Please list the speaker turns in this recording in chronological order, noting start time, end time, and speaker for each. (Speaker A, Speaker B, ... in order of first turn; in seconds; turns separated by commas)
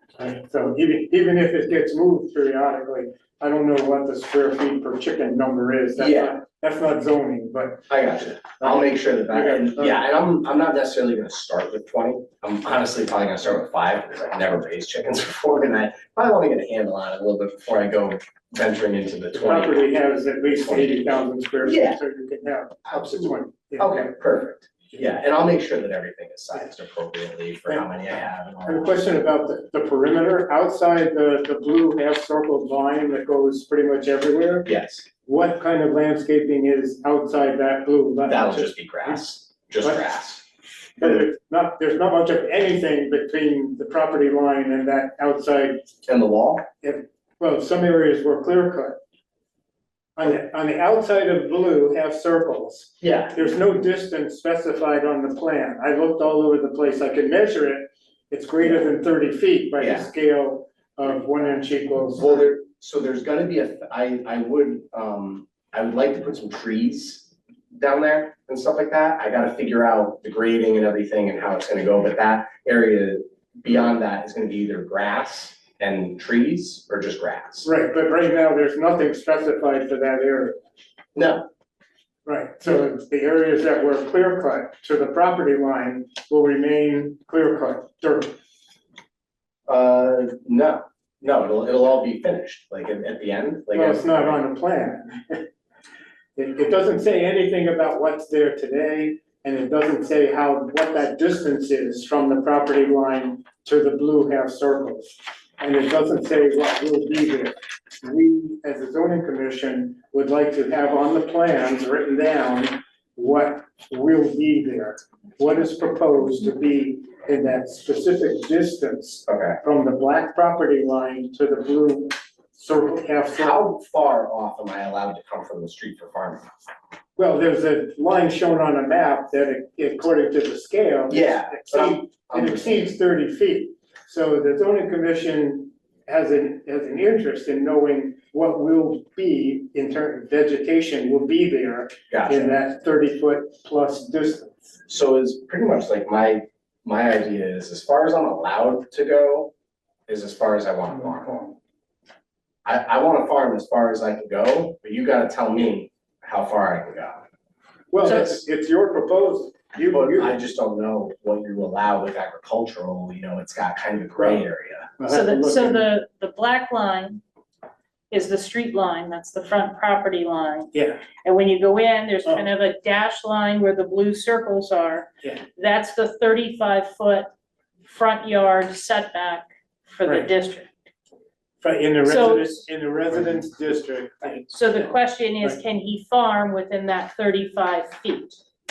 Speaker A: 0.2-7.9, Speaker B: 6.0-6.4, Speaker B: 7.9-22.0, Speaker A: 8.6-10.0, Speaker A: 19.4-24.1, Speaker B: 22.9-29.0, Speaker A: 28.6-34.7, Speaker B: 34.6-35.1, Speaker A: 35.3-39.2, Speaker B: 38.3-40.4, Speaker A: 41.0-45.9, Speaker B: 46.1-46.7, Speaker A: 46.8-49.0, Speaker A: 50.2-62.4, Speaker B: 53.0-53.5, Speaker B: 58.6-58.9, Speaker B: 59.8-60.1, Speaker B: 62.2-77.7, Speaker A: 77.7-80.6, Speaker B: 81.2-81.5, Speaker A: 82.2-88.3, Speaker B: 89.7-94.4, Speaker A: 93.7-95.5, Speaker A: 96.4-123.7, Speaker B: 119.3-119.6, Speaker B: 123.3-126.5, Speaker A: 127.2-144.7, Speaker B: 131.1-132.9, Speaker B: 142.1-142.6, Speaker B: 144.9-149.5, Speaker B: 150.1-151.6, Speaker B: 152.7-157.2, Speaker A: 157.9-160.3, Speaker B: 158.0-158.4, Speaker B: 159.8-164.9, Speaker A: 165.0-165.9, Speaker C: 165.1-167.2, Speaker C: 168.1-177.3, Speaker A: 170.7-171.1, Speaker C: 177.8-180.7, Speaker A: 180.0-180.3, Speaker A: 181.6-184.9, Speaker C: 182.1-182.6, Speaker C: 184.5-188.4